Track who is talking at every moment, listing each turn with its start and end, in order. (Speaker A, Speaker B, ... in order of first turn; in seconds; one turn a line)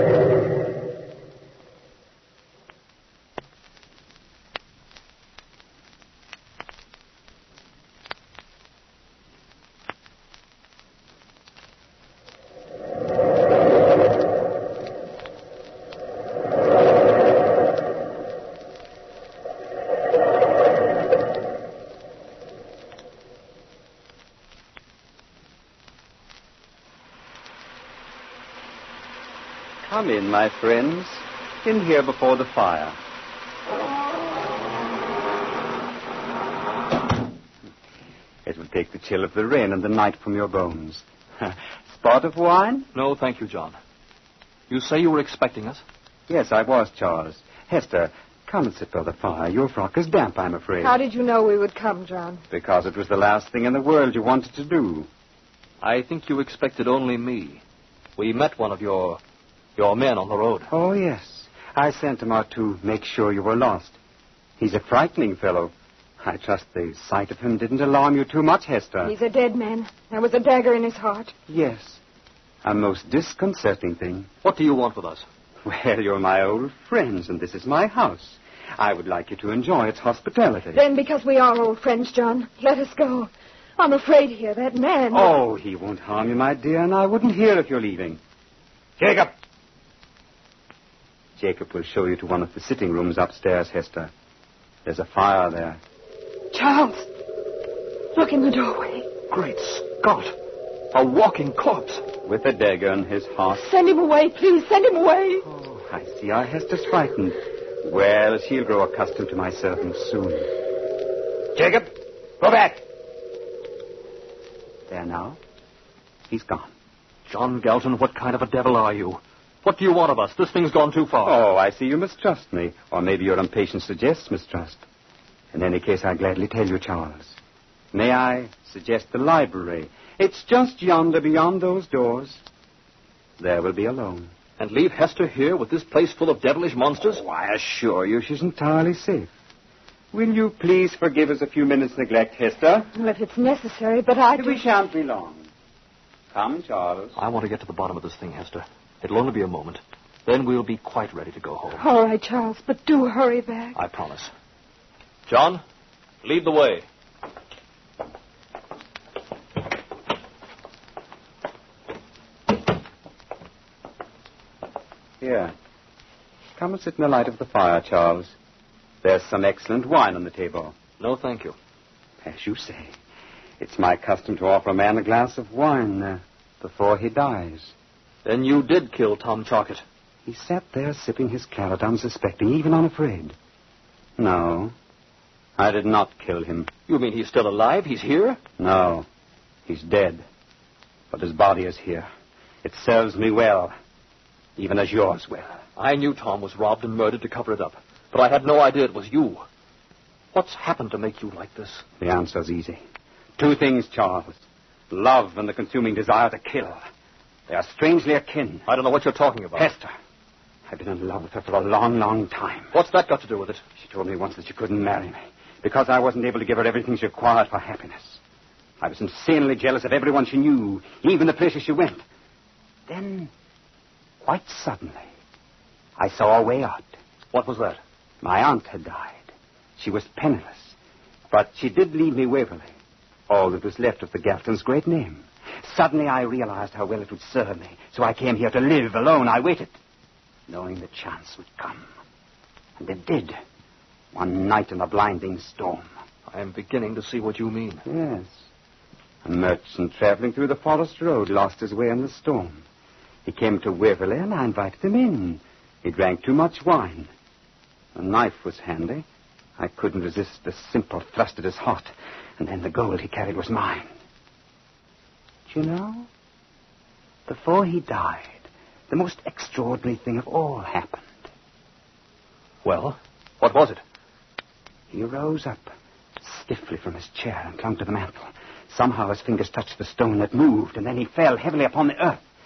Speaker A: 29.8-33.0
Speaker A: 38.5-42.9
Speaker B: 42.9-43.8
Speaker B: 44.7-45.8
Speaker A: 46.3-51.0
Speaker C: 50.8-52.4
Speaker A: 52.5-55.1
Speaker B: 55.8-57.6
Speaker B: 58.2-59.2
Speaker B: 59.8-60.7
Speaker A: 60.7-64.0
Speaker A: 64.6-69.1
Speaker C: 69.0-71.3
Speaker A: 71.5-72.0
Speaker A: 72.6-74.3
Speaker B: 74.4-75.3
Speaker A: 75.6-80.8
Speaker C: 80.7-85.3
Speaker A: 85.1-88.2
Speaker A: 89.0-89.3
Speaker A: 91.4-94.1
Speaker A: 94.8-95.8
Speaker C: 96.5-97.1
Speaker C: 98.1-99.1
Speaker B: 99.3-100.3
Speaker B: 100.9-102.1
Speaker A: 102.2-103.7
Speaker C: 103.5-105.4
Speaker A: 105.4-110.5
Speaker A: 111.5-111.9
Speaker A: 112.4-112.8
Speaker A: 114.9-115.4
Speaker A: 116.3-116.7
Speaker B: 117.3-121.4
Speaker A: 121.2-124.8
Speaker A: 125.5-127.4
Speaker A: 127.9-132.4
Speaker A: 133.4-134.3
Speaker B: 134.6-137.2
Speaker A: 137.0-139.3
Speaker A: 140.1-142.9
Speaker C: 142.9-144.6
Speaker A: 144.3-145.5
Speaker A: 146.3-147.2
Speaker B: 147.2-151.8
Speaker C: 151.8-153.8
Speaker B: 153.8-154.3
Speaker B: 155.3-155.6
Speaker B: 156.2-156.8
Speaker A: 165.2-165.5
Speaker A: 166.6-168.4
Speaker A: 169.0-170.8
Speaker B: 171.0-171.6
Speaker A: 172.2-172.9
Speaker A: 173.6-177.7
Speaker B: 178.2-179.8
Speaker A: 180.3-183.4
Speaker A: 184.2-184.7
Speaker A: 185.6-186.7
Speaker B: 186.9-188.4
Speaker A: 188.6-189.1
Speaker A: 189.7-190.2
Speaker A: 191.1-192.1
Speaker A: 192.6-193.7
Speaker A: 194.6-195.6
Speaker B: 195.8-199.4
Speaker B: 200.3-201.8
Speaker A: 202.0-202.8
Speaker A: 203.4-206.8
Speaker A: 207.5-208.7
Speaker B: 208.7-209.7
Speaker A: 209.5-209.9
Speaker A: 210.7-212.8
Speaker B: 212.7-213.6
Speaker A: 213.8-218.2
Speaker A: 218.8-222.0
Speaker A: 222.9-223.3
Speaker A: 224.2-225.1
Speaker A: 226.0-226.9
Speaker B: 227.3-227.8
Speaker A: 228.2-230.8
Speaker A: 231.3-232.7
Speaker A: 233.3-239.8
Speaker A: 240.5-241.9
Speaker A: 242.8-243.4
Speaker A: 244.1-245.9
Speaker B: 246.3-247.8
Speaker A: 247.9-248.4
Speaker A: 249.2-252.6
Speaker A: 253.2-257.1
Speaker A: 257.9-259.1
Speaker A: 259.6-263.9
Speaker A: 265.5-266.1
Speaker A: 267.3-271.3
Speaker B: 272.6-273.8
Speaker A: 274.9-275.7
Speaker A: 276.2-282.2